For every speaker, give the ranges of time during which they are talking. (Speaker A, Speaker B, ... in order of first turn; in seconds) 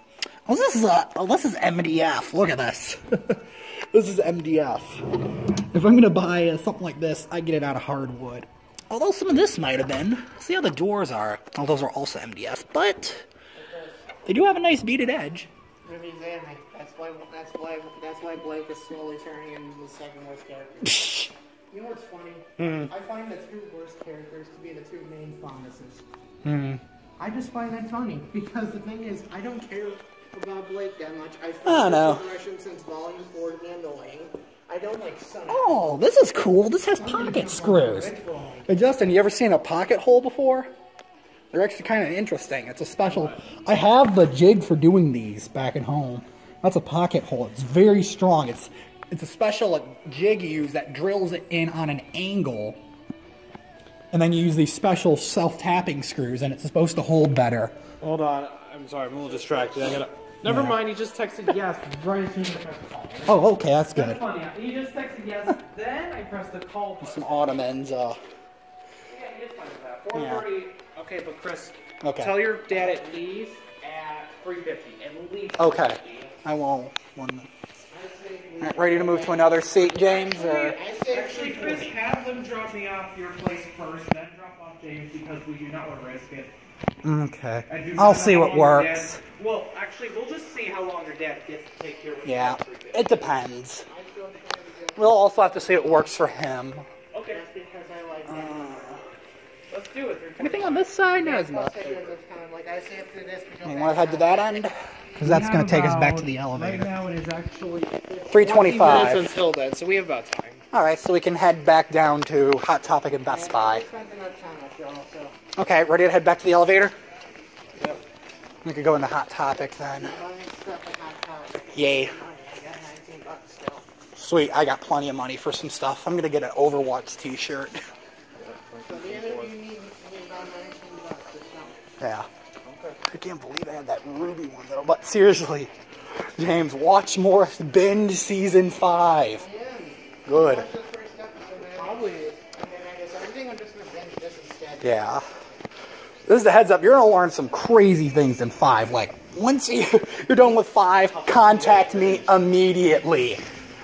Speaker A: 0.5-5.2, 5.7-13.2, 14.2-15.5, 22.6-22.9, 26.4-26.8, 31.6-32.2, 35.5-38.1, 38.7-40.7, 41.5-52.8, 54.1-57.8, 60.4-60.8, 63.3-64.2, 67.0-68.2, 70.1-70.5, 72.0-72.5, 75.6-77.5, 78.6-80.8, 87.0-89.2, 92.2-93.9, 95.0-96.8, 98.3-99.0, 100.4-101.9, 103.6-106.9, 108.3-109.3, 110.7-113.8, 115.5-116.9, 118.6-120.1, 121.7-122.1, 124.2-127.8, 132.0-132.3, 133.0-139.4, 140.2-140.7, 144.8-145.2, 146.3-153.4
Speaker B: 13.6-14.1, 15.8-26.0, 27.2-36.0, 37.0-38.7, 77.9-81.9, 93.9-96.1, 97.3-99.0, 101.2-104.7, 113.2-115.3, 119.9-123.9, 128.8-131.8, 139.3-145.2
Speaker C: 58.0-63.4, 63.9-67.5, 69.1-76.3, 81.0-86.5, 87.7-93.1, 97.1-97.4, 99.7-100.9, 101.7-102.1, 105.2-110.6, 128.4-129.5, 132.6-133.0, 141.7-142.4, 151.2-152.3